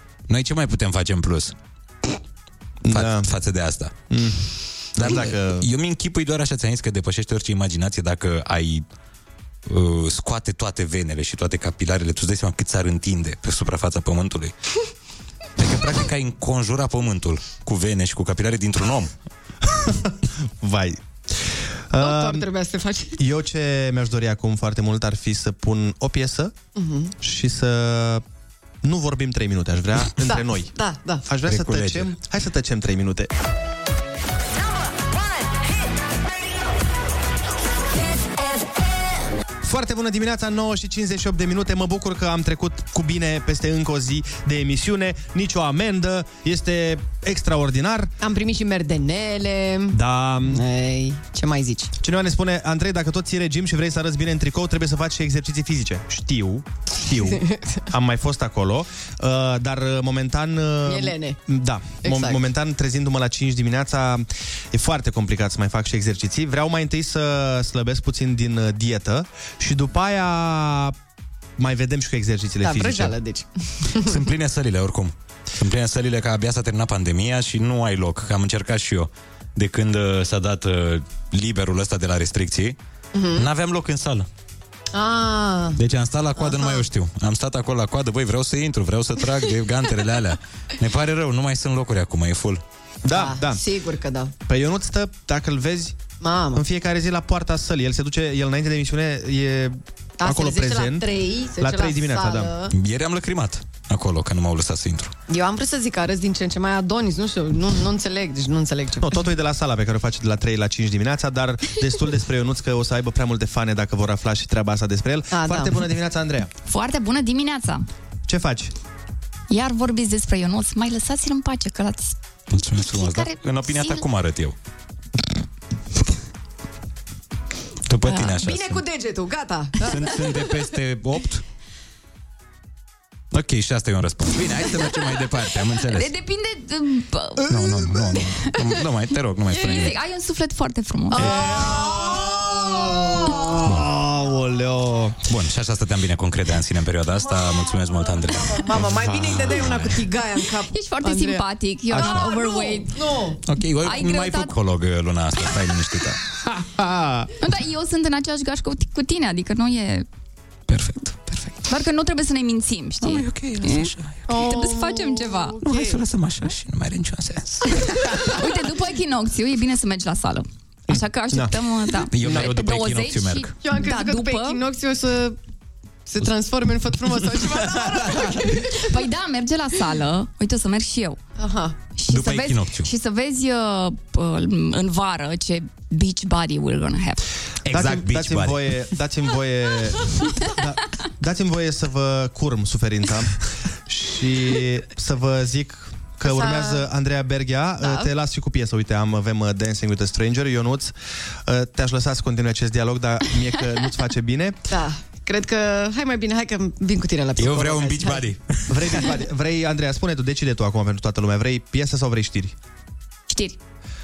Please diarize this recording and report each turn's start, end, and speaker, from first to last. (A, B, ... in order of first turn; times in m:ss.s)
0:00.3-0:01.6 A
0:02.8-0:03.3 B
0:02.9-0:03.9 A
0:04.1-0:04.4 B
0:05.0-0:05.7 B
0:05.0-0:08.8 A
0:09.6-0:14.5 A
0:15.6-0:19.1 A
0:19.8-0:22.5 B
0:22.0-0:23.2 C
0:23.2-0:26.6 B
0:26.8-0:27.1 C
0:27.2-0:28.2 B
0:28.8-0:30.7 B
0:30.3-0:31.2 C
0:31.3-0:33.3 B
0:31.5-0:32.1 A
0:39.6-0:48.1 B
0:48.2-0:51.9 C
0:49.9-0:50.6 B
0:52.0-1:10.9 B
0:57.1-0:57.8 C
1:00.9-1:01.4 C
1:02.0-1:02.4 C
1:11.6-1:13.2 B
1:12.6-1:14.2 C
1:14.0-1:22.8 A
1:23.2-1:23.4 C
1:23.4-1:24.3 A
1:24.9-1:25.8 C
1:25.8-1:32.6 A
1:26.4-1:26.8 C
1:33.0-1:33.6 B
1:33.1-1:34.3 C
1:34.4-1:36.0 B
1:36.2-1:36.6 C
1:36.5-1:41.1 B
1:40.2-1:42.7 C
1:41.6-1:42.5 B
1:42.7-1:45.1 A
1:45.3-1:49.3 C
1:49.0-1:56.5 B
1:55.3-1:55.8 C
1:56.6-1:57.9 D
1:58.3-1:58.7 B
1:59.5-2:04.1 D
2:02.5-2:04.6 A
2:07.9-2:08.8 A
2:08.1-2:10.3 C
2:09.8-2:11.4 A
2:13.3-2:16.1 A
2:15.8-2:17.6 D
2:17.4-2:20.0 A
2:17.6-2:17.8 B
2:19.5-2:21.8 D
2:21.2-2:22.0 C
2:21.2-2:25.2 B
2:21.2-2:21.5 A
2:25.3-2:30.1 A
2:28.6-2:33.4 C
2:30.5-2:33.2 D
2:33.4-2:36.2 A
2:33.8-2:34.6 D
2:36.4-2:37.3 B
2:37.4-2:40.1 D
2:40.7-2:41.6 A
2:41.7-2:45.6 D
2:43.0-2:44.3 A
2:44.3-2:46.0 C
2:45.6-2:47.8 A
2:47.7-2:54.6 D
2:50.9-2:51.6 B
2:52.1-2:53.5 A
2:53.6-2:55.4 C
2:56.1-2:58.8 C
2:58.5-3:01.2 D
3:01.4-3:01.8 C
3:02.0-3:07.2 D
3:02.1-3:02.9 A
3:07.6-3:08.6 A
3:07.7-3:20.9 B
3:16.2-3:16.8 C
3:17.8-3:18.1 C
3:21.4-3:24.6 B
3:24.7-3:28.3 C
3:27.4-3:28.9 A
3:28.7-3:32.6 B
3:33.3-3:33.6 D